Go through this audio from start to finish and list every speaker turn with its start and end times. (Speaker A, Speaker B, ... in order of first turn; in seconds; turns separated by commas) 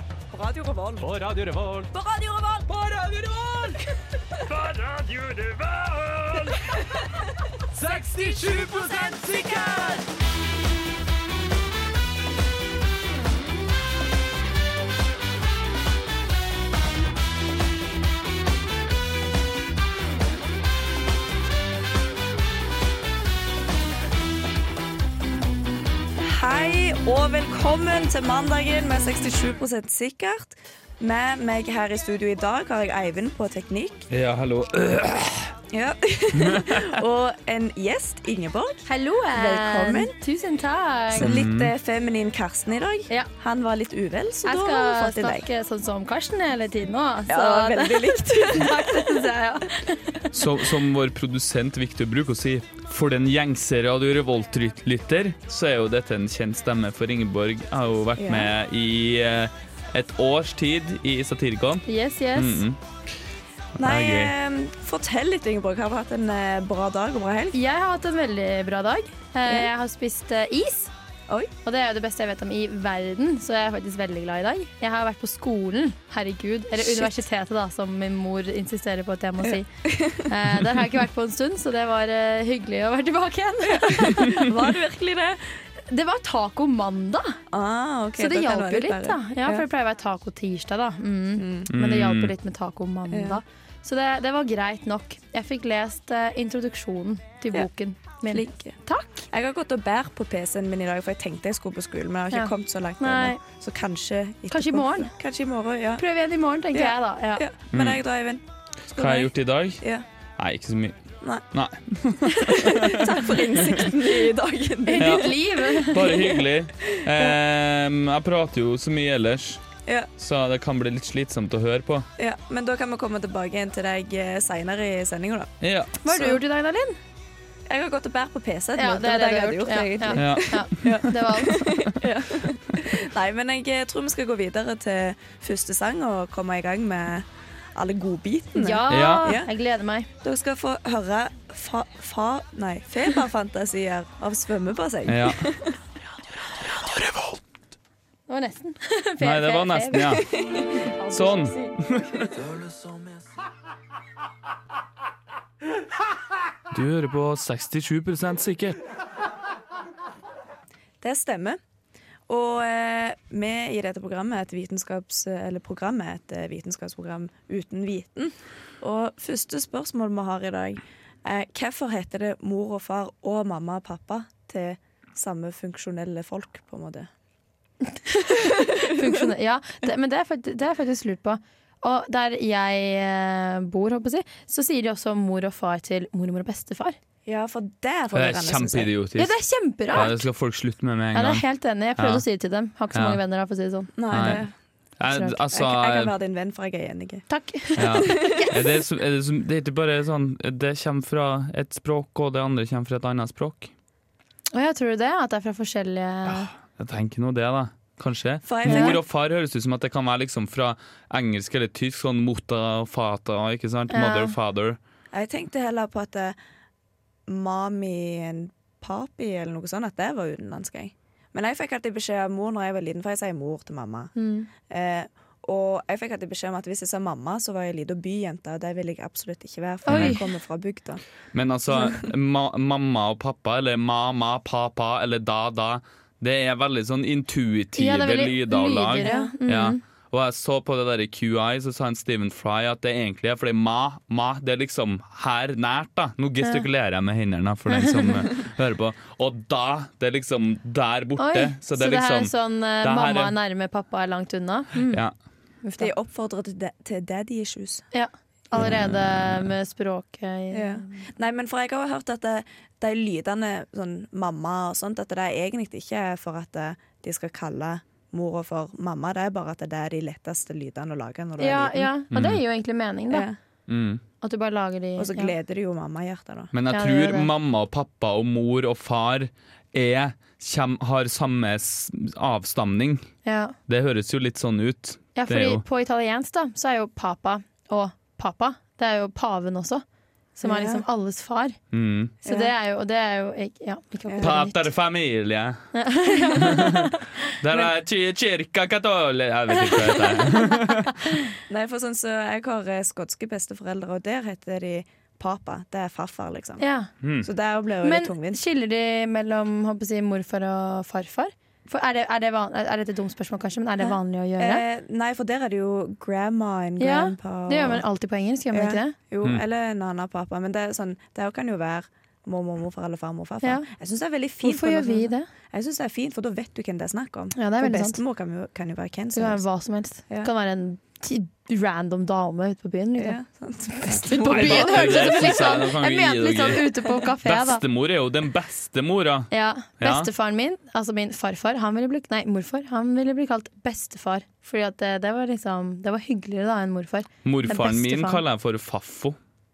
Speaker A: 0.3-1.1, Speaker B: 1.0-1.9, Speaker A: 1.9-2.6, Speaker B: 2.6-3.9, Speaker B: 4.5-6.8, Speaker B: 7.7-10.0, Speaker A: 8.3-9.2, Speaker A: 26.2-34.0, Speaker C: 34.1-35.5, Speaker A: 35.7-40.1, Speaker C: 36.3-37.0, Speaker D: 38.9-41.3, Speaker A: 41.1-45.5, Speaker C: 41.2-41.7, Speaker D: 44.4-50.3, Speaker A: 47.3-49.3, Speaker C: 50.3-61.8, Speaker A: 58.2-58.5, Speaker D: 61.9-62.6, Speaker C: 62.3-62.8, Speaker C: 63.8-64.3, Speaker A: 63.8-67.6, Speaker D: 67.5-70.9, Speaker D: 71.6-79.7, Speaker A: 76.8-77.1, Speaker A: 79.5-80.3, Speaker D: 80.2-84.5, Speaker A: 83.7-85.4, Speaker D: 85.8-87.3, Speaker A: 87.5-89.6, Speaker D: 88.2-99.2, Speaker A: 91.4-91.7, Speaker C: 91.7-92.3, Speaker A: 93.1-93.4, Speaker A: 98.3-98.8, Speaker A: 99.3-106.0, Speaker D: 102.3-103.4, Speaker D: 104.5-105.1, Speaker D: 106.0-107.4, Speaker A: 106.7-110.0, Speaker C: 107.7-108.0, Speaker C: 109.0-109.8, Speaker C: 110.4-110.9, Speaker C: 111.5-113.9, Speaker A: 112.3-116.3, Speaker D: 114.8-116.3, Speaker C: 115.0-119.6, Speaker C: 120.2-122.1, Speaker A: 122.2-125.5, Speaker C: 125.6-126.0, Speaker D: 126.0-127.0, Speaker A: 126.1-126.4, Speaker A: 127.7-139.5, Speaker D: 128.8-131.8, Speaker C: 130.1-131.0, Speaker D: 138.6-140.1, Speaker C: 138.9-139.3, Speaker A: 140.2-145.8, Speaker C: 145.1-145.4, Speaker C: 146.5-147.4, Speaker D: 148.3-151.7, Speaker C: 149.2-150.2, Speaker A: 150.1-150.7, Speaker C: 151.1-152.4, Speaker C: 156.7-158.8, Speaker A: 161.0-161.6, Speaker A: 162.3-177.1, Speaker D: 177.9-186.9, Speaker A: 178.5-179.1, Speaker A: 187.2-188.9, Speaker C: 188.1-189.3, Speaker D: 189.2-190.2, Speaker C: 189.9-191.4, Speaker D: 191.1-194.4, Speaker C: 192.0-192.2, Speaker C: 192.9-193.2, Speaker A: 194.0-194.5, Speaker C: 194.1-194.4, Speaker C: 195.0-196.1, Speaker D: 195.1-195.4, Speaker A: 195.5-197.2, Speaker D: 197.3-198.6, Speaker C: 197.8-203.7, Speaker A: 197.8-198.5, Speaker D: 204.5-206.5, Speaker C: 206.3-214.8, Speaker A: 208.4-209.0, Speaker D: 208.6-209.0, Speaker D: 213.9-214.3, Speaker A: 215.1-216.3, Speaker A: 217.3-224.1, Speaker D: 224.2-224.5, Speaker A: 224.7-231.0, Speaker C: 229.9-230.2, Speaker D: 229.9-230.2, Speaker C: 231.3-253.3, Speaker D: 237.8-239.8, Speaker A: 239.0-239.3, Speaker D: 247.7-248.2, Speaker D: 251.2-255.0, Speaker D: 255.6-255.9, Speaker A: 255.8-257.9, Speaker D: 257.9-261.0, Speaker C: 258.6-259.5, Speaker A: 260.5-271.9, Speaker D: 271.4-273.3, Speaker C: 272.1-272.4, Speaker A: 273.1-273.4, Speaker C: 273.7-274.0, Speaker D: 274.2-275.3, Speaker A: 275.0-276.5, Speaker C: 276.5-283.1, Speaker D: 276.7-277.3, Speaker D: 283.2-283.5, Speaker C: 283.7-285.6, Speaker D: 285.1-289.8, Speaker D: 290.4-291.6, Speaker A: 290.4-290.8, Speaker C: 291.7-292.1, Speaker A: 292.2-292.5, Speaker D: 292.2-294.7, Speaker A: 294.1-294.3, Speaker C: 294.2-295.6, Speaker D: 295.7-297.2, Speaker C: 296.4-301.1, Speaker D: 299.5-301.1, Speaker A: 301.5-306.6, Speaker D: 306.6-306.9, Speaker C: 307.0-307.3, Speaker A: 307.2-308.4, Speaker D: 307.8-314.6, Speaker A: 313.8-317.8, Speaker D: 316.8-318.9, Speaker A: 318.5-329.4, Speaker D: 324.4-325.3, Speaker D: 327.3-328.0, Speaker D: 329.1-333.2, Speaker A: 333.0-335.5, Speaker D: 333.8-337.6, Speaker C: 334.1-336.7, Speaker C: 337.2-340.1, Speaker D: 339.3-348.2, Speaker C: 347.2-349.2